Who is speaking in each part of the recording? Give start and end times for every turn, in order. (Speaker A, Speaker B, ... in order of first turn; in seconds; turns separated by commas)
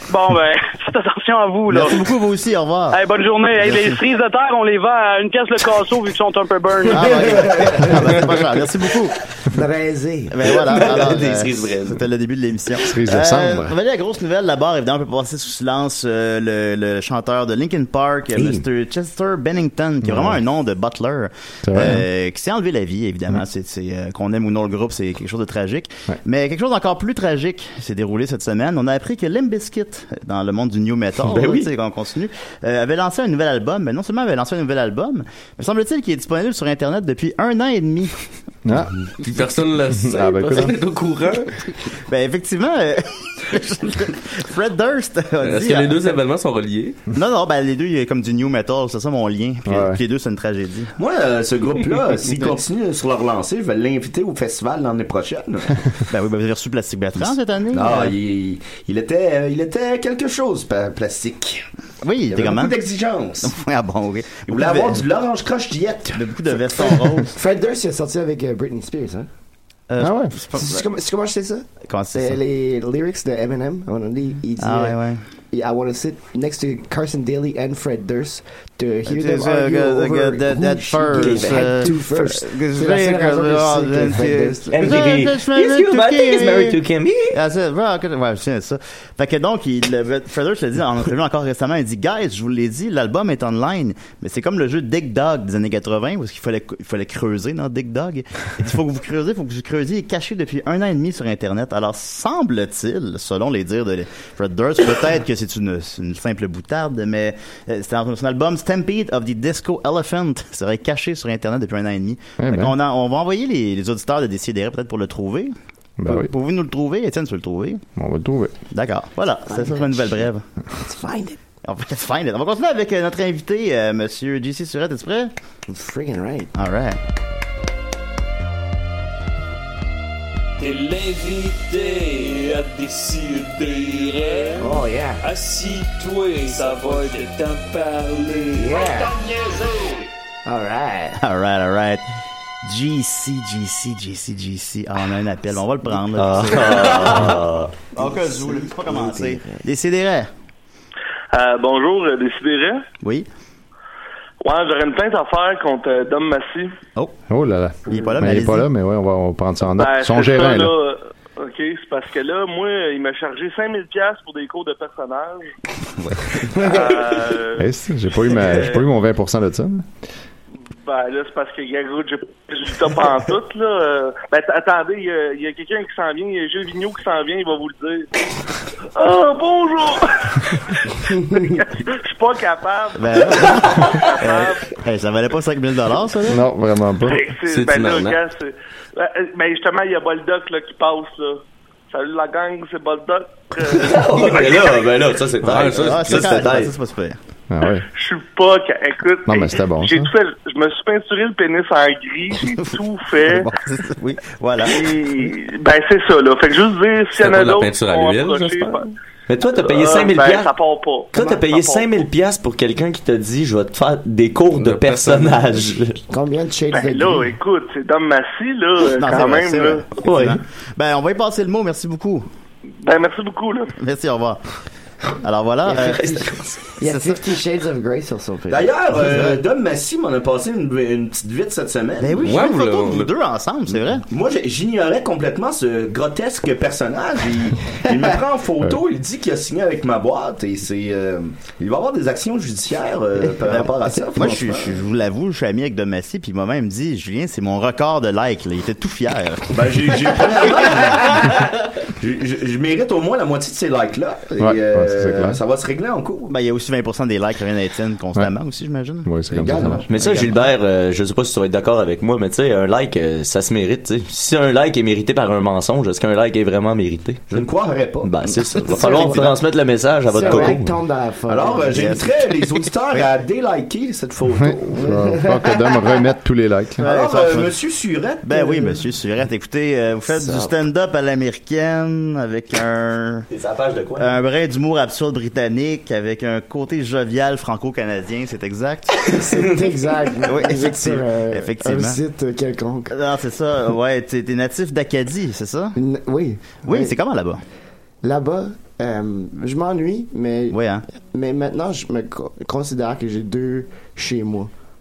Speaker A: 0.1-2.0, Speaker B: 1.7-3.0, Speaker A: 2.9-7.1, Speaker B: 3.5-4.0, Speaker B: 6.9-9.2, Speaker C: 7.0-8.3, Speaker C: 9.5-10.6, Speaker B: 10.3-38.3, Speaker D: 10.4-12.1, Speaker E: 12.9-13.7, Speaker D: 18.4-18.6, Speaker E: 20.0-20.4, Speaker E: 21.6-22.0, Speaker D: 31.2-31.7, Speaker E: 38.6-38.9, Speaker F: 39.0-41.5, Speaker E: 40.0-40.8, Speaker B: 41.9-46.2, Speaker F: 45.4-47.0, Speaker B: 47.1-51.0, Speaker E: 49.7-50.0, Speaker G: 51.0-55.8, Speaker B: 52.2-52.6, Speaker B: 56.1-58.2, Speaker G: 57.2-61.7, Speaker B: 62.0-65.0, Speaker G: 62.3-63.6, Speaker G: 64.5-67.0, Speaker B: 66.1-67.3, Speaker C: 67.3-69.3, Speaker B: 69.9-70.9, Speaker E: 70.0-70.3, Speaker C: 70.5-75.0, Speaker B: 71.9-72.4, Speaker B: 74.6-75.2, Speaker C: 75.5-85.1, Speaker B: 79.1-86.8, Speaker D: 81.2-81.9, Speaker D: 84.7-87.4, Speaker B: 87.3-115.5, Speaker E: 112.4-112.7, Speaker E: 116.0-116.3, Speaker B: 116.0-117.8, Speaker E: 118.0-118.5, Speaker B: 118.7-120.5, Speaker C: 119.5-121.4, Speaker B: 121.7-125.3, Speaker C: 125.7-126.5, Speaker B: 126.5-127.0, Speaker H: 130.6-134.7, Speaker C: 134.6-135.2, Speaker H: 135.2-138.9, Speaker C: 138.6-139.2, Speaker C: 140.5-141.2, Speaker B: 141.2-142.0, Speaker B: 142.6-147.4, Speaker D: 146.2-147.7, Speaker B: 147.9-150.3, Speaker C: 148.0-149.7, Speaker I: 151.3-152.8, Speaker B: 153.0-153.3, Speaker I: 154.4-156.7, Speaker E: 157.3-160.7, Speaker B: 157.9-158.7, Speaker I: 159.8-165.5, Speaker B: 166.0-166.7, Speaker I: 166.5-167.7, Speaker E: 167.6-169.9, Speaker I: 168.2-168.8, Speaker I: 170.8-178.1, Speaker I: 178.9-184.8, Speaker B: 183.0-186.4, Speaker E: 186.3-187.2, Speaker I: 187.1-195.0, Speaker F: 187.5-188.2, Speaker D: 193.7-196.7, Speaker F: 195.4-196.4, Speaker B: 195.7-197.2, Speaker E: 197.5-197.9, Speaker I: 197.9-203.5, Speaker E: 199.3-200.1, Speaker B: 203.2-205.3, Speaker I: 204.7-208.9, Speaker F: 207.2-208.9, Speaker D: 209.3-210.5, Speaker I: 209.6-212.0, Speaker D: 211.1-216.0, Speaker C: 211.2-211.4, Speaker F: 214.5-215.8, Speaker C: 216.1-217.3, Speaker I: 216.7-219.8, Speaker B: 218.9-222.3, Speaker D: 220.0-220.4, Speaker I: 222.8-223.7, Speaker B: 223.8-224.4, Speaker B: 225.2-226.3, Speaker C: 225.7-226.2, Speaker D: 225.8-226.5, Speaker C: 226.8-229.0, Speaker B: 226.8-227.3, Speaker G: 228.5-232.3, Speaker B: 228.9-229.4, Speaker B: 232.0-234.1, Speaker F: 232.2-233.1, Speaker G: 233.8-244.8, Speaker B: 243.4-250.2, Speaker G: 249.5-256.3, Speaker E: 254.4-255.4, Speaker B: 256.3-260.0, Speaker E: 259.0-259.8, Speaker G: 259.3-260.3, Speaker D: 259.9-267.5, Speaker G: 267.3-269.2, Speaker D: 268.0-270.7, Speaker B: 268.6-269.4, Speaker C: 270.1-271.8, Speaker G: 271.3-274.8, Speaker B: 271.7-273.1, Speaker E: 274.4-276.9, Speaker C: 274.8-275.5, Speaker B: 276.8-277.6, Speaker G: 276.8-278.5, Speaker B: 278.2-283.3, Speaker D: 283.3-284.2, Speaker B: 284.0-289.1, Speaker C: 289.1-292.9, Speaker B: 290.3-292.0, Speaker B: 292.9-295.8, Speaker C: 295.8-297.0, Speaker B: 296.6-297.4, Speaker C: 298.0-304.5, Speaker B: 300.5-300.9